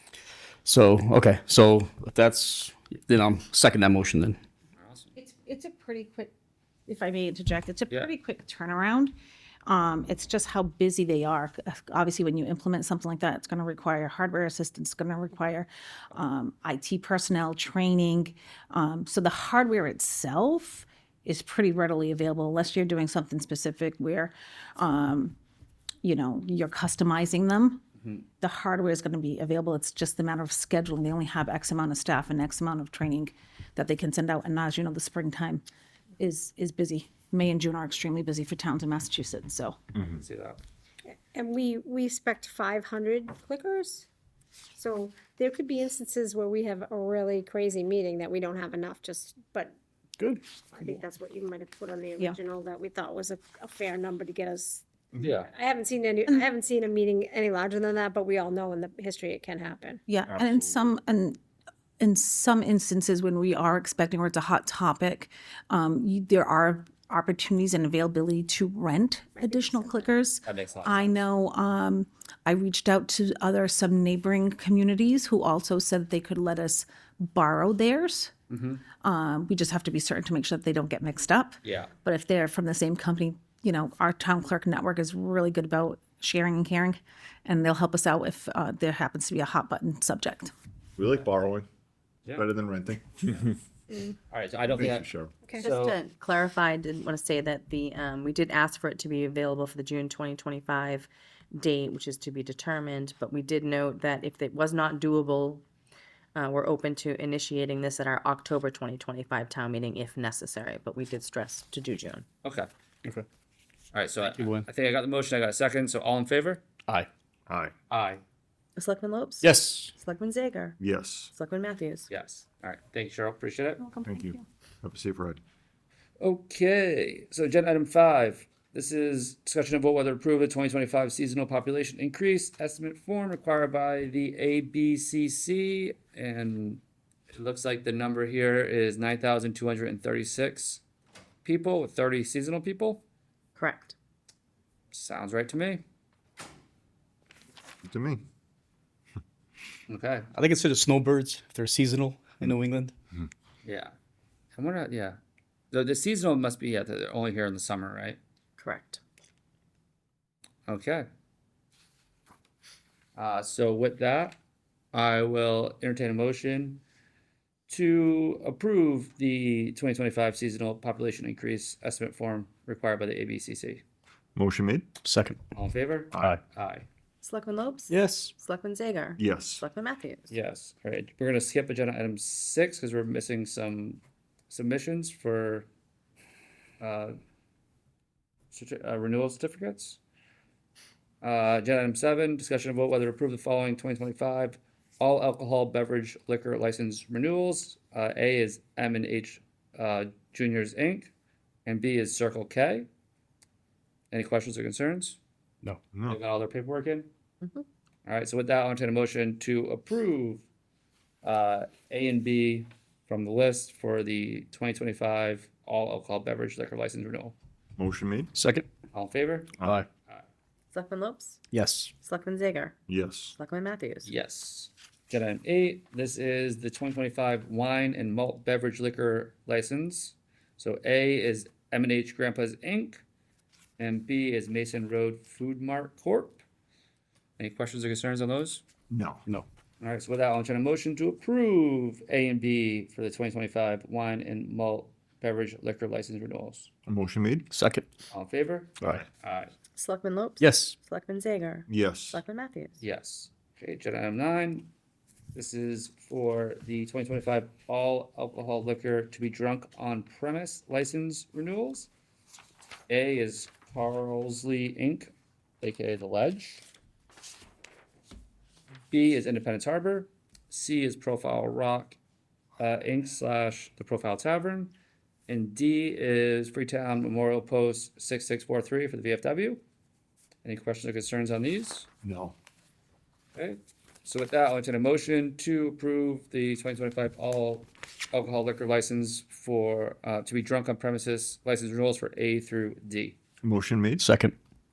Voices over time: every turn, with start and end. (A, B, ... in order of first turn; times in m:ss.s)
0:00.6-0:04.4 A
0:04.8-0:05.1 B
0:05.2-0:06.3 C
0:06.9-0:09.1 C
0:09.7-0:25.4 C
0:26.0-0:27.8 C
0:28.4-0:35.6 C
0:36.2-0:39.8 C
0:40.0-0:40.6 B
0:41.0-0:44.0 D
0:44.8-0:49.7 D
0:50.7-0:54.8 D
0:55.2-0:55.5 B
0:55.5-1:00.0 D
1:00.1-1:01.4 C
1:02.0-1:18.3 C
1:09.4-1:10.1 D
1:10.4-1:11.2 B
1:18.5-1:18.8 B
1:19.0-1:30.5 C
1:21.6-1:21.9 B
1:31.0-1:31.7 E
1:32.4-1:33.6 E
1:34.3-1:35.9 B
1:34.7-1:35.3 E
1:35.4-1:35.7 D
1:35.6-1:45.6 F
1:46.4-1:52.2 F
1:52.4-1:52.7 B
1:53.9-1:56.6 B
1:54.2-1:54.7 A
1:57.5-1:57.7 E
1:57.9-1:58.2 B
1:58.8-1:59.4 F
1:59.4-1:59.9 A
2:00.0-2:00.7 F
2:00.8-2:01.3 E
2:01.3-2:02.0 F
2:02.1-2:03.9 B
2:03.8-2:04.4 C
2:04.0-2:05.4 E
2:06.2-2:16.8 B
2:17.3-2:20.8 B
2:21.4-2:23.0 B
2:23.6-2:23.9 F
2:24.9-2:25.8 B
2:27.8-2:28.2 E
2:29.9-2:30.3 B
2:30.3-2:32.9 A
2:33.6-2:33.9 B
2:34.5-2:35.2 B
2:35.7-2:38.2 B
2:38.6-2:39.0 F
2:40.7-2:41.0 B
2:43.2-2:44.4 B
2:44.9-2:46.8 B
2:47.7-2:53.8 B
2:54.4-2:54.9 E
2:55.0-2:55.4 A
2:55.5-2:56.8 B
2:57.2-3:00.2 F
2:57.9-2:58.3 A
2:59.2-2:59.7 E
3:00.3-3:05.7 B
3:06.8-3:07.1 B
3:08.5-3:10.0 B
3:11.2-3:21.1 B
3:21.7-3:22.9 B
3:24.1-3:25.2 B
3:25.9-3:26.2 E
3:26.0-3:27.1 B
3:28.0-3:30.4 B
3:31.2-3:37.3 B
3:37.8-3:38.3 E
3:38.3-3:38.7 A
3:38.9-3:39.5 B
3:39.6-3:39.9 A
3:40.7-3:41.4 F
3:41.5-3:41.9 A
3:42.0-3:42.7 F
3:42.9-3:43.4 E
3:43.4-3:44.0 F
3:44.0-3:53.0 B
3:53.8-3:56.4 B
3:57.4-3:58.6 B
3:58.9-3:59.2 E
3:59.8-4:06.7 B
4:06.8-4:07.4 E
4:07.5-4:07.9 A
4:08.1-4:09.5 B
4:09.8-4:12.7 F
4:10.4-4:10.8 A
4:11.7-4:12.2 E
4:12.8-4:14.7 B
4:15.3-4:21.9 B
4:22.9-4:26.6 B
4:28.9-4:32.0 B
4:32.6-4:34.7 B
4:35.3-4:39.6 B
4:40.4-4:41.9 B
4:42.0-4:42.3 E
4:43.3-4:53.2 B
4:53.4-4:54.0 E
4:54.0-4:54.4 A